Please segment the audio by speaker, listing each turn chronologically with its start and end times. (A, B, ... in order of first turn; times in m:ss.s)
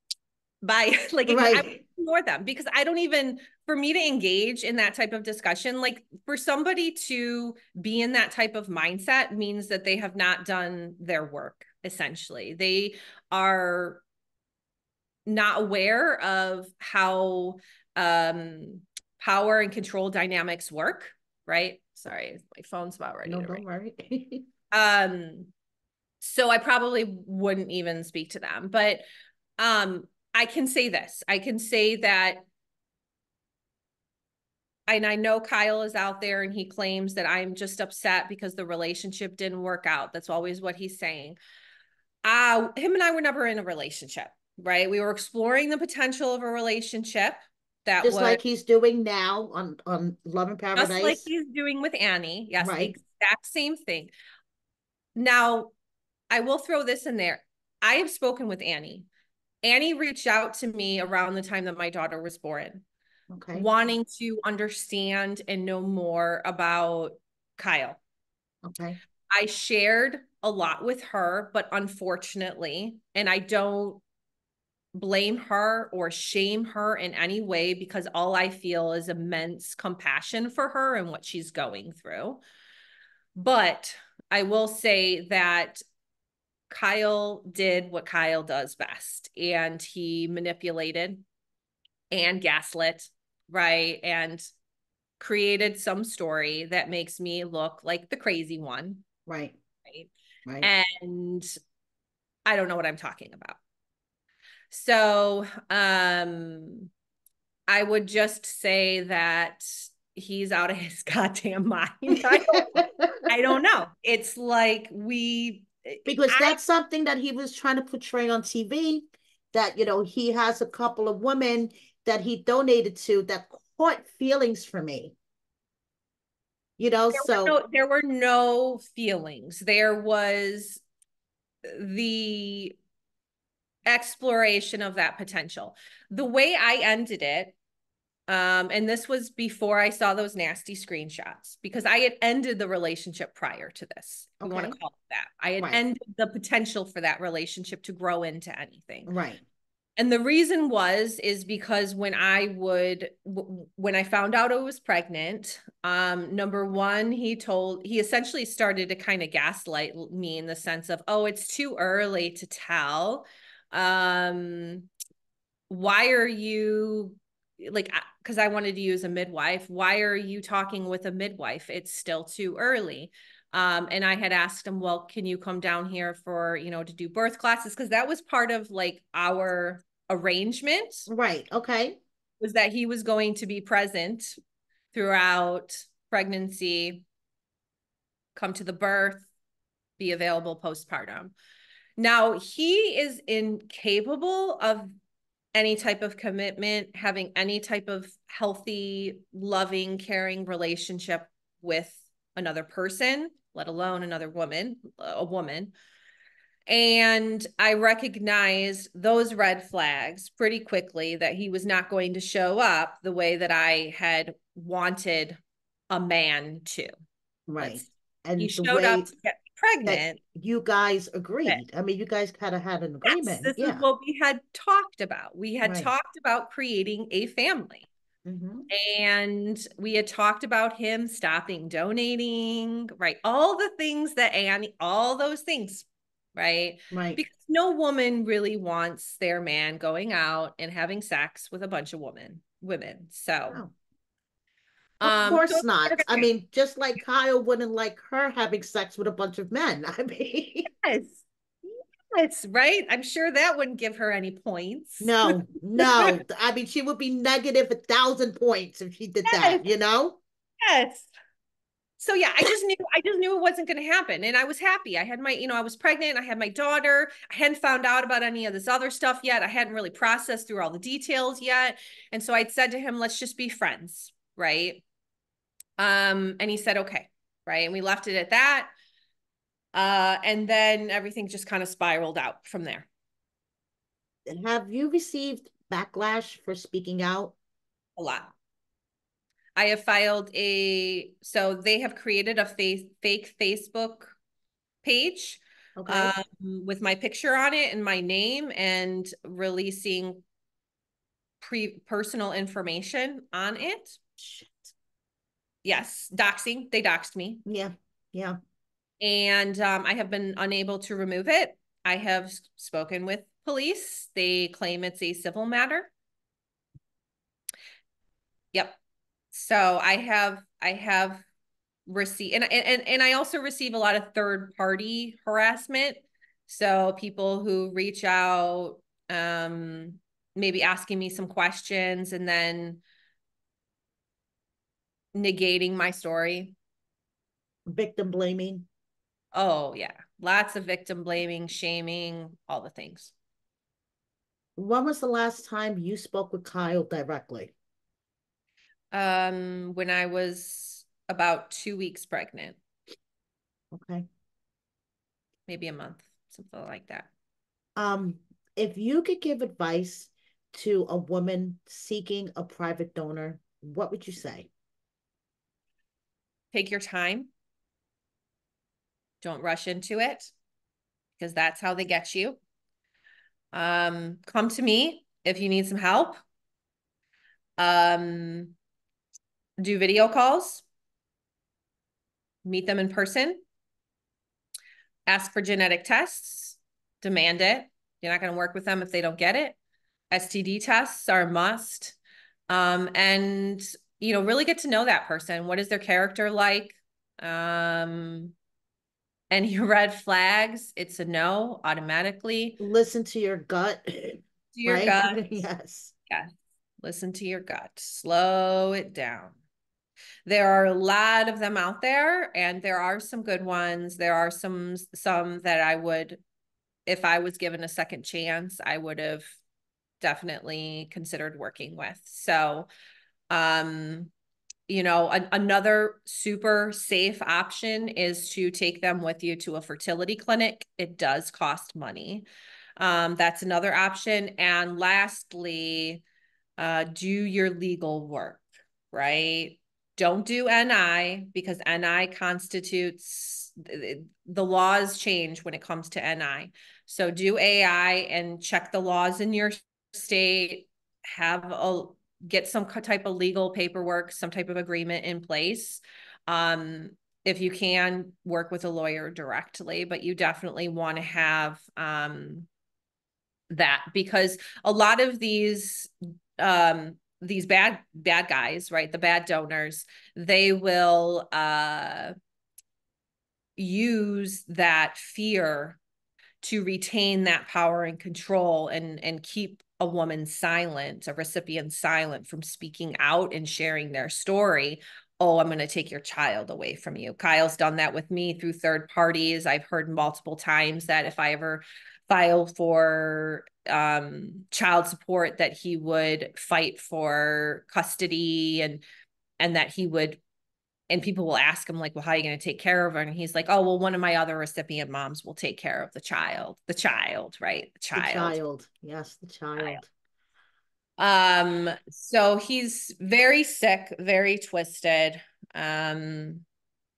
0:00.6-0:14.0 A
0:01.3-0:01.8 B
0:15.3-0:23.6 A
0:23.3-0:24.5 B
0:24.7-0:25.5 A
0:26.2-0:29.0 A
0:29.6-0:32.4 A
0:34.9-0:41.4 A
0:42.2-0:48.4 A
0:48.0-0:51.3 B
0:50.8-0:54.1 A
0:52.6-0:53.0 B
0:55.2-0:55.7 A
0:56.3-0:59.1 A
0:59.6-1:02.8 A
1:03.3-1:03.7 B
1:03.5-1:08.0 A
1:08.6-1:09.0 B
1:09.3-1:14.0 A
1:14.9-1:22.4 A
1:23.4-1:25.8 A
1:26.7-1:31.2 A
1:32.1-1:34.5 A
1:35.2-1:39.0 A
1:39.3-1:39.6 B
1:40.6-1:41.5 A
1:42.5-1:43.6 A
1:44.7-1:46.9 A
1:47.7-1:56.6 A
1:52.7-1:53.3 B
1:56.1-2:05.2 B
2:06.8-2:07.6 B
2:07.1-2:10.8 A
2:11.6-2:12.8 A
2:13.9-2:17.5 A
2:18.3-2:29.1 A
2:24.4-2:24.8 B
2:29.1-2:29.4 B
2:30.0-2:44.9 A
2:45.7-3:01.1 A
3:01.1-3:02.0 B
3:02.4-3:04.4 A
3:04.9-3:07.0 A
3:08.4-3:09.3 A
3:10.0-3:11.4 A
3:12.0-3:14.9 A
3:15.6-3:25.7 A
3:26.7-3:35.4 A
3:35.9-3:36.9 A
3:37.5-3:39.1 B
3:37.6-3:40.2 A
3:39.8-3:43.8 B
3:43.0-3:47.9 A
3:45.6-3:45.9 B
3:48.2-3:48.7 B
3:48.7-4:03.6 A
3:56.9-3:57.2 B
4:05.0-4:10.7 B
4:05.0-4:06.3 A
4:10.7-4:16.2 A
4:15.0-4:20.2 B
4:19.2-4:19.6 A
4:20.6-4:21.1 A
4:22.0-4:34.8 A
4:35.8-4:38.7 A
4:39.7-4:42.9 A
4:44.3-4:47.4 B
4:48.0-4:48.3 A
4:49.6-4:54.2 A
4:54.8-5:00.2 A
4:55.8-4:56.1 B
5:01.4-5:04.0 A
5:04.2-5:04.7 B
5:05.6-5:07.4 A
5:07.5-5:08.4 B
5:09.0-5:15.9 A
5:18.5-5:18.8 A
5:19.3-5:21.2 A
5:21.9-5:32.8 A
5:35.2-5:36.6 A
5:37.7-5:38.7 B
5:39.3-5:43.1 A
5:44.6-5:47.5 B
5:48.9-5:52.6 A
5:53.7-5:54.1 B
5:55.5-5:57.1 A
5:57.8-6:04.5 B
6:06.5-6:07.3 A
6:09.2-6:10.3 A
6:11.2-6:12.4 A
6:13.5-6:16.2 A
6:17.6-6:18.6 A
6:19.6-6:20.6 A
6:22.4-6:23.4 A
6:25.1-6:29.6 A
6:30.1-6:32.0 A
6:32.5-6:38.3 A
6:39.3-6:42.6 A
6:42.6-6:45.9 B
6:44.5-6:45.2 A
6:46.1-6:49.4 A
6:50.3-6:56.2 A
6:56.9-6:59.4 A
7:00.0-7:02.7 A
7:03.3-7:04.1 A
7:04.7-7:12.3 A
7:12.8-7:16.0 A
7:16.6-7:42.5 A
7:43.5-7:52.2 A
7:53.6-7:55.8 A
7:56.4-8:18.8 A
8:19.4-8:20.2 A
8:20.9-8:28.4 A
8:28.0-8:29.9 B
8:31.0-8:36.4 A